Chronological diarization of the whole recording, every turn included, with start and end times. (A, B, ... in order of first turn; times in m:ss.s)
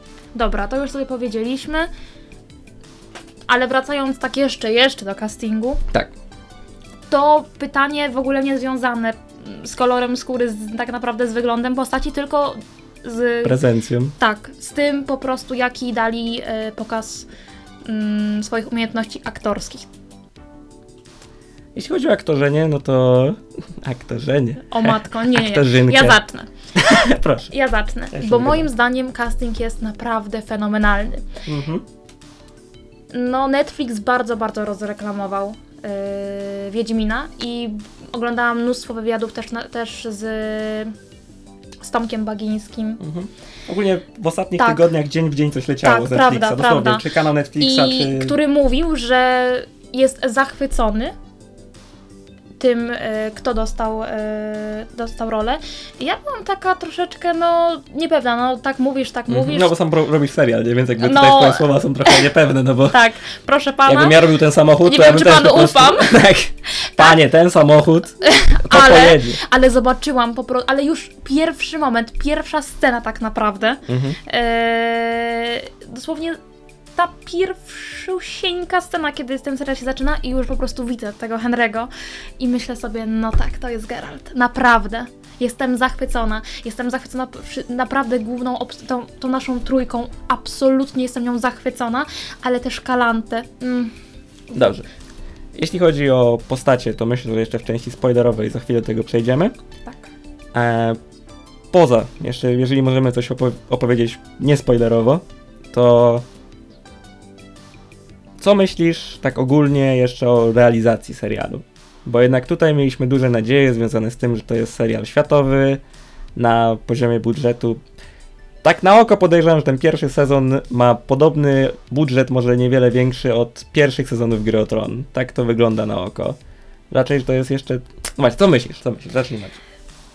0:00.3-0:01.9 A
0:03.5-0:05.8 A
0:07.1-0:13.6 A
0:13.4-0:14.2 B
0:14.2-0:17.3 A
0:17.8-0:19.9 A
0:21.7-0:26.2 B
0:24.7-0:26.5 A
0:26.7-0:27.5 B
0:27.5-0:31.2 A
0:28.1-0:28.7 B
0:31.4-0:31.8 B
0:33.1-0:40.9 A
0:41.8-0:43.0 A
0:43.0-0:48.4 B
0:44.6-0:44.9 A
0:45.8-0:47.0 A
0:47.6-0:51.1 A
0:52.6-0:59.7 A
0:59.3-1:03.0 B
1:01.0-1:02.3 A
1:02.9-1:04.2 A
1:03.8-1:09.4 B
1:04.8-1:06.2 A
1:06.8-1:07.2 A
1:08.2-1:16.4 A
1:13.9-1:14.2 B
1:17.0-1:33.9 A
1:34.5-1:34.8 B
1:35.5-1:39.5 B
1:39.8-1:40.1 A
1:40.5-1:41.0 B
1:41.7-1:46.2 B
1:48.4-1:55.8 B
1:56.4-1:57.8 B
1:58.6-2:06.4 B
2:06.9-2:09.6 B